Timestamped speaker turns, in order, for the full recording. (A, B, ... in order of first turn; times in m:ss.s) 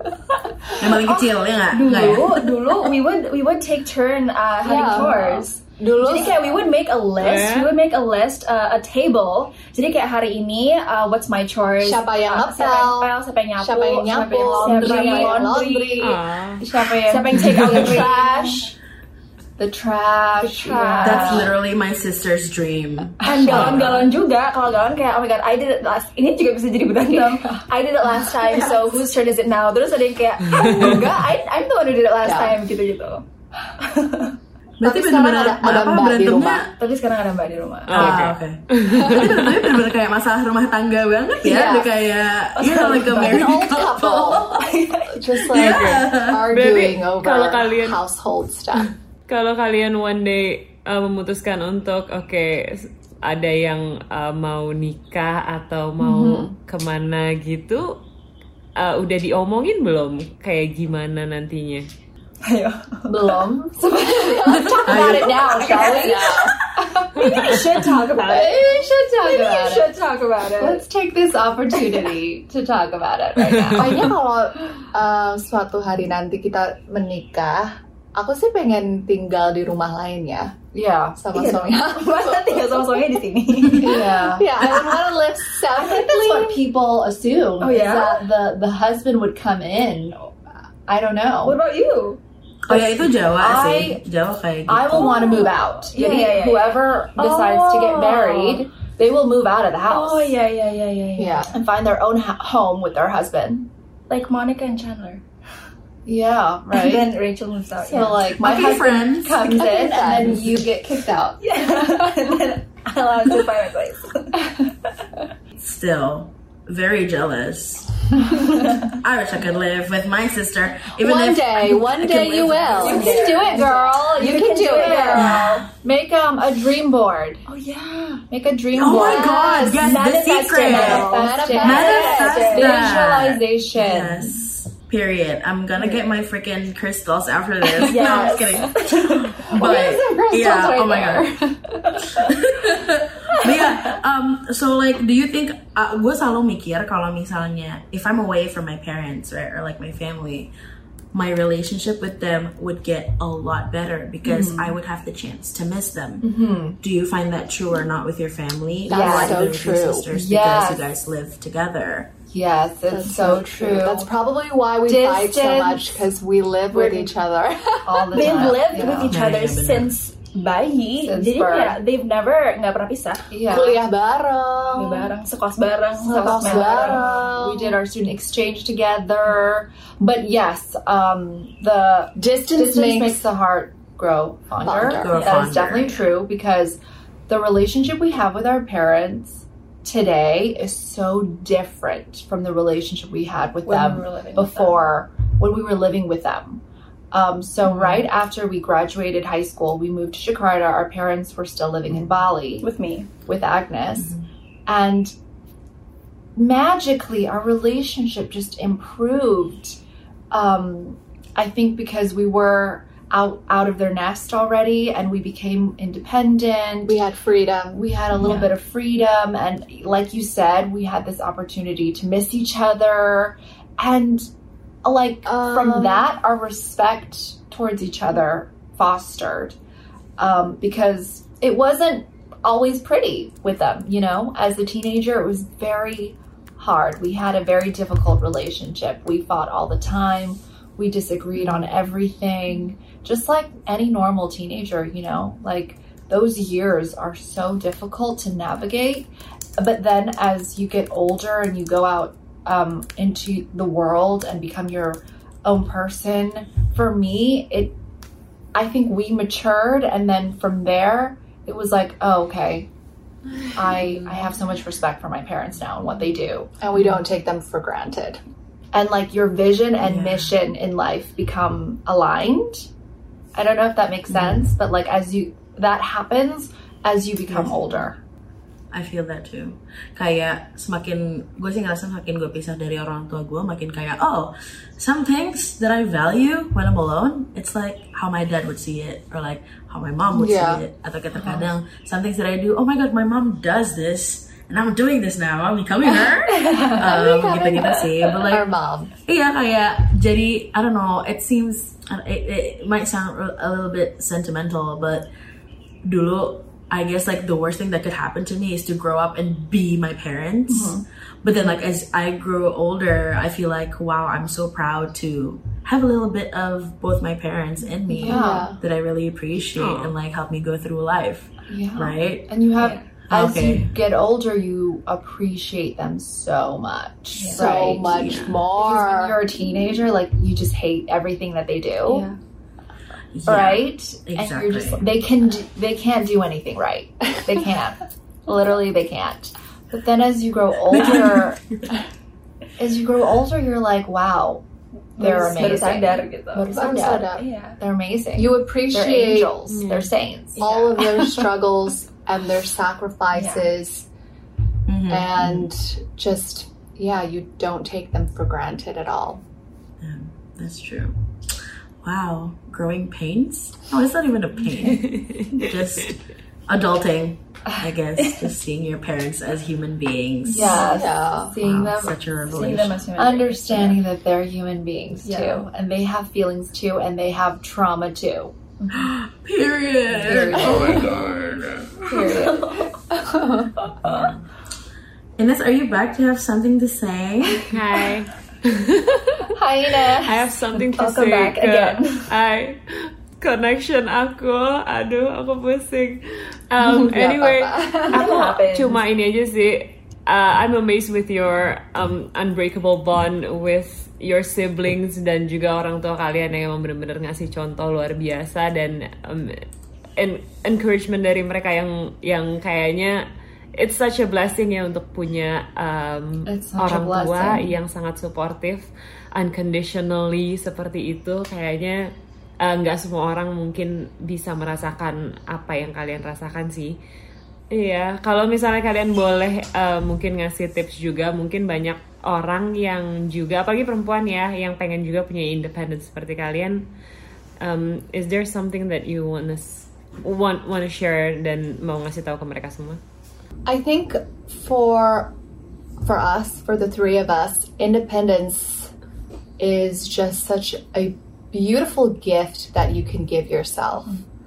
0:00.8-0:02.5 A
0:01.0-0:16.1 B
0:04.6-0:06.4 C
0:07.2-0:07.7 D
0:11.8-0:16.2 C
0:14.4-0:15.6 E
0:16.0-0:16.6 D
0:16.6-0:18.6 E
0:16.6-0:18.7 B
0:17.6-0:18.0 D
0:19.6-0:21.5 E
0:20.4-0:21.5 B
0:21.0-0:24.1 A
0:23.2-0:23.9 E
0:23.2-0:33.2 B
0:23.5-0:23.8 D
0:27.0-0:27.6 E
0:28.6-0:28.9 C
0:30.5-0:31.0 D
0:32.2-0:32.6 C
0:33.8-0:34.4 B
0:34.8-0:36.7 A
0:34.8-0:36.7 C
0:36.8-0:38.2 B
0:37.9-0:39.8 D
0:37.9-0:44.7 A
0:41.5-0:41.8 C
0:42.6-0:43.6 B
0:43.1-0:44.6 C
0:44.6-0:45.6 B
0:45.1-0:48.9 C
0:45.5-0:46.5 A
0:45.6-0:48.0 D
0:48.8-0:57.9 D
0:56.0-0:56.5 E
0:58.8-1:01.8 D
1:02.4-1:04.2 B
1:03.1-1:06.4 E
1:03.9-1:05.2 C
1:04.7-1:05.7 A
1:05.5-1:06.3 B
1:05.8-1:06.6 C
1:07.0-1:07.6 E
1:07.0-1:10.8 B
1:08.3-1:09.9 E
1:10.6-1:14.2 E
1:13.7-1:20.6 C
1:20.7-1:21.2 E
1:21.2-1:22.7 C
1:21.3-1:24.1 B
1:23.6-1:23.9 A
1:23.8-1:24.7 E
1:23.8-1:26.6 C
1:25.7-1:30.3 E
1:27.6-1:28.2 B
1:30.9-1:31.6 E
1:31.4-1:32.2 B
1:32.7-1:35.4 A
1:32.7-1:34.0 E
1:34.7-1:40.4 E
1:35.0-1:38.6 B
1:39.9-1:41.5 B
1:41.2-1:41.5 C
1:41.5-1:43.7 E
1:44.1-1:45.2 B
1:46.1-1:47.1 E
1:46.7-1:48.4 B
1:47.8-1:52.1 E
1:48.4-1:49.6 A
1:48.6-1:50.6 C
1:50.2-1:50.4 A
1:51.4-1:54.7 B
1:55.6-1:58.0 A
1:58.4-1:59.0 B
1:58.8-2:03.0 A
2:01.0-2:03.8 C
2:02.6-2:07.4 E
2:02.8-2:05.6 B
2:05.1-2:05.7 A
2:07.5-2:08.2 B
2:08.3-2:10.0 E
2:08.7-2:21.3 A
2:09.0-2:09.6 C
2:09.8-2:12.9 B
2:10.6-2:14.4 E
2:10.8-2:12.6 C
2:17.9-2:19.4 B
2:19.5-2:21.2 C
2:21.8-2:22.2 B
2:22.2-2:30.5 A
2:23.6-2:23.9 B
2:31.1-2:36.3 A
2:34.2-2:34.8 E
2:36.2-2:36.8 E
2:36.8-2:42.1 A
2:38.9-2:40.1 C
2:38.9-2:39.6 E
2:40.1-2:40.8 E
2:42.3-2:44.1 E
2:42.9-2:48.6 C
2:44.9-2:46.0 E
2:46.7-2:47.1 B
2:47.9-2:49.2 E
2:48.1-2:53.3 B
2:49.1-2:50.0 A
2:51.0-2:51.8 E
2:53.3-2:53.8 E
2:53.5-2:55.1 C
2:54.8-2:57.1 B
2:56.0-3:22.7 E
2:56.1-2:57.8 C
3:02.2-3:03.2 C
3:04.6-3:05.6 C
3:04.8-3:06.2 A
3:13.6-3:14.8 B
3:17.6-3:18.1 A
3:22.6-3:23.1 B
3:23.3-3:25.1 E
3:24.0-3:24.3 A
3:26.4-3:29.8 E
3:30.3-3:37.0 E
3:36.9-3:37.8 C
3:37.7-3:44.3 E
3:44.8-3:49.6 E
3:45.2-3:46.1 C
3:50.2-4:17.8 E
4:01.4-4:01.7 A
4:18.5-4:22.7 E
4:23.5-4:26.5 E
4:26.6-4:28.2 C
4:28.7-4:32.7 E
4:29.8-4:30.4 A
4:33.3-4:38.0 E
4:34.1-4:34.5 A
4:37.3-4:37.9 A
4:38.7-4:58.4 A
4:50.1-4:50.6 C
4:56.8-4:58.9 C
4:59.1-5:05.1 A
5:05.8-5:22.3 A
5:10.5-5:10.8 E
5:17.9-5:18.5 E
5:18.0-5:18.6 C
5:19.6-5:20.0 D
5:21.5-5:32.1 E
5:22.6-5:22.9 B
5:23.1-5:23.7 A
5:27.2-5:27.5 B
5:27.4-5:29.2 C
5:27.9-5:28.5 A
5:31.9-5:32.2 B
5:33.1-5:34.8 A
5:33.3-5:41.4 E
5:40.7-5:41.7 A
5:42.6-5:44.4 E
5:45.0-5:47.6 B
5:45.0-5:50.5 E
5:46.5-5:47.2 C
5:48.2-5:49.3 C
5:48.7-5:49.2 B
5:49.5-5:49.9 D
5:50.4-5:51.2 B
5:50.4-5:53.9 C
5:53.1-5:53.5 B
5:54.7-5:55.5 A
5:54.9-5:59.2 C
5:59.8-6:01.0 A
6:01.8-6:10.7 A
6:04.8-6:05.5 D
6:08.0-6:08.3 B
6:10.2-6:12.0 E
6:10.4-6:10.7 B
6:10.4-6:11.4 C
6:11.4-6:12.8 A
6:12.3-6:13.8 B
6:13.0-6:18.9 E
6:15.0-6:15.5 B
6:18.7-6:21.9 A
6:19.9-6:21.0 E
6:21.8-6:23.5 E
6:21.9-6:22.7 B
6:23.8-6:24.3 A
6:25.2-6:27.6 A
6:27.5-6:29.3 D
6:29.3-6:30.6 E
6:29.8-6:49.3 D
6:30.8-6:32.1 B
6:36.6-6:38.0 C
6:37.9-6:38.8 B
6:50.0-6:53.0 D
6:53.6-7:01.8 D
6:56.3-6:57.6 E
7:02.4-7:06.8 D
7:07.5-7:16.6 D
7:17.4-7:22.8 D
7:23.5-7:25.2 C
7:25.8-7:28.7 C
7:29.4-7:34.0 C